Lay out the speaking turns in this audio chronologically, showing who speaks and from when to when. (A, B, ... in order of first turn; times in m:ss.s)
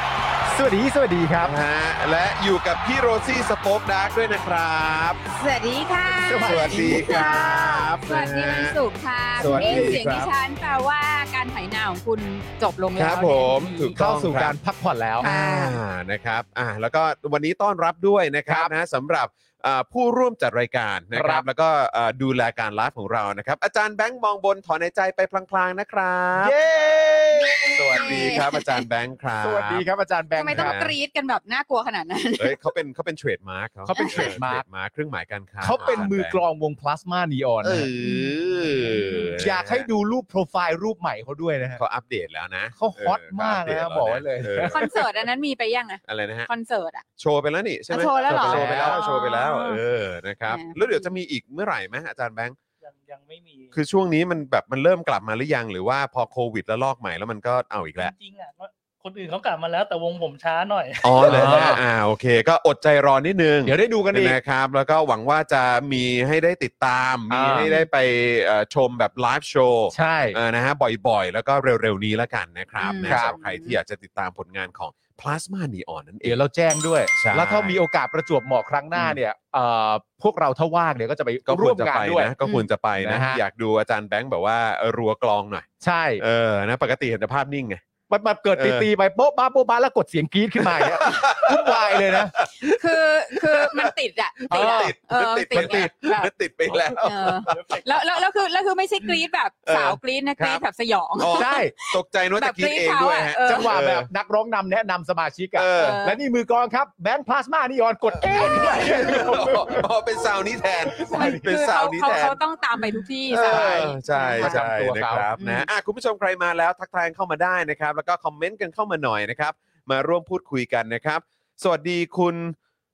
0:00.4-0:01.5 A
0:01.4-0:05.2 B
0:05.3-0:14.0 C
0:06.2-0:07.5 A
0:06.4-0:08.8 B
0:09.4-0:10.2 A
0:09.4-0:10.3 B
0:13.0-0:14.6 B
0:14.0-0:15.3 A
0:15.2-0:26.6 B
0:15.2-0:15.8 C
0:18.5-0:18.7 A
0:21.1-0:21.5 A
0:26.4-0:28.4 A
0:27.6-0:28.8 C
0:27.6-0:29.8 B
0:29.4-0:30.9 A
0:30.3-0:32.6 C
0:30.5-0:30.9 B
0:32.4-0:36.4 B
0:33.8-0:34.6 A
0:33.9-0:34.4 C
0:35.6-0:37.9 A
0:35.8-0:36.1 C
0:37.6-0:39.9 B
0:38.0-0:39.4 C
0:39.3-0:41.8 A
0:41.8-0:44.9 B
0:42.8-0:45.0 A
0:44.6-0:47.0 C
0:46.0-0:46.5 B
0:47.2-0:52.5 B
0:47.9-0:49.8 C
0:48.2-0:49.0 A
0:50.5-0:51.1 C
0:52.8-0:53.7 D
0:53.7-0:58.1 B
0:58.0-1:01.8 D
1:01.0-1:16.4 B
1:01.2-1:01.8 A
1:03.6-1:04.4 A
1:07.3-1:07.7 A
1:07.6-1:07.9 C
1:09.9-1:10.4 A
1:12.8-1:13.8 C
1:13.0-1:13.3 A
1:16.2-1:22.3 A
1:17.2-1:17.8 B
1:21.5-1:25.7 B
1:23.0-1:23.4 A
1:25.8-1:26.2 A
1:26.2-1:27.8 B
1:28.1-1:32.3 A
1:28.6-1:28.9 B
1:30.6-1:32.9 B
1:32.6-1:36.3 C
1:33.5-1:33.9 B
1:34.5-1:37.7 B
1:34.5-1:34.9 A
1:35.5-1:35.9 A
1:37.0-1:43.7 C
1:39.6-1:40.6 B
1:41.2-1:44.1 B
1:41.3-1:41.7 A
1:43.4-1:49.8 A
1:45.6-1:46.0 B
1:45.8-1:46.2 C
1:48.4-1:49.2 C
1:48.4-1:52.4 B
1:50.9-1:51.5 A
1:51.1-1:54.6 C
1:53.3-2:02.5 B
1:53.4-1:55.3 A
1:55.4-1:55.7 C